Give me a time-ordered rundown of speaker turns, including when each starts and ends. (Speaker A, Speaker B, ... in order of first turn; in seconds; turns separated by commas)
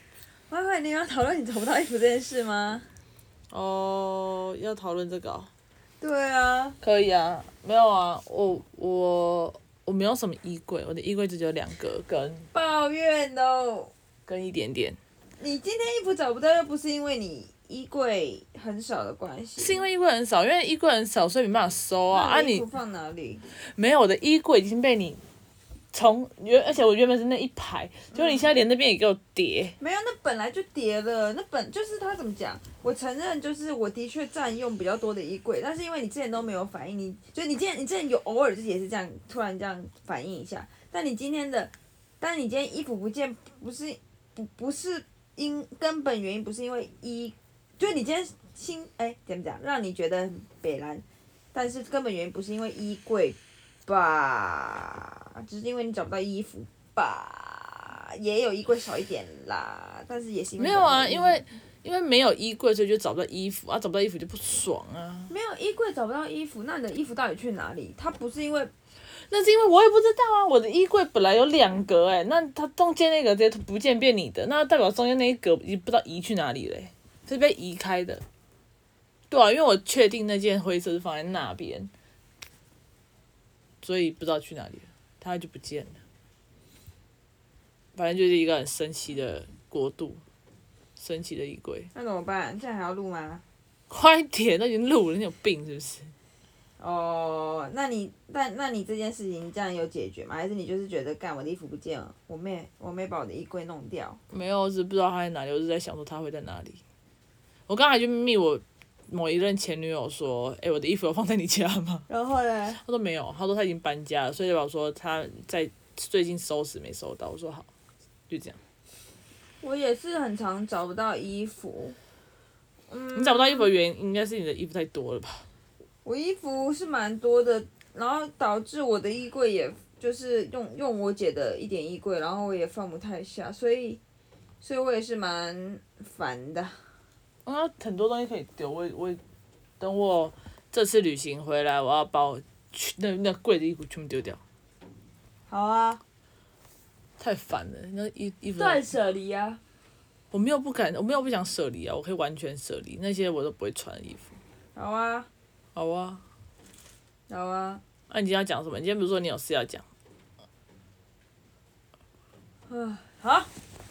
Speaker A: 0.5-2.9, Speaker B: 3.5-5.5, Speaker A: 6.0-6.8, Speaker B: 6.8-12.5, Speaker A: 12.5-13.9, Speaker B: 14.3-15.0, Speaker A: 15.4-19.9, Speaker B: 19.6-22.6, Speaker A: 22.1-23.4, Speaker B: 23.7-25.2, Speaker B: 25.9-29.8, Speaker A: 28.1-28.5, Speaker A: 29.8-61.4, Speaker B: 60.6-65.3, Speaker A: 65.3-68.7, Speaker B: 69.3-78.2, Speaker B: 79.3-81.9, Speaker B: 83.8-86.0, Speaker B: 88.0-90.2, Speaker B: 91.0-91.9, Speaker A: 91.9-93.4, Speaker B: 93.9-96.1, Speaker A: 96.8-104.2, Speaker B: 104.3-106.8, Speaker B: 107.7-112.0, Speaker A: 112.1-112.8, Speaker B: 112.8-117.7, Speaker B: 118.3-118.6, Speaker A: 119.6-122.0, Speaker A: 122.9-123.7, Speaker B: 123.1-125.4, Speaker A: 126.0-134.0, Speaker A: 134.6-136.8, Speaker B: 137.4-139.2, Speaker B: 139.8-144.4, Speaker A: 145.5-146.0, Speaker B: 147.2-148.8, Speaker A: 148.6-149.6, Speaker B: 150.3-154.3, Speaker A: 154.7-155.3, Speaker B: 155.8-156.2, Speaker A: 157.3-157.8, Speaker B: 158.1-159.8, Speaker A: 162.7-163.5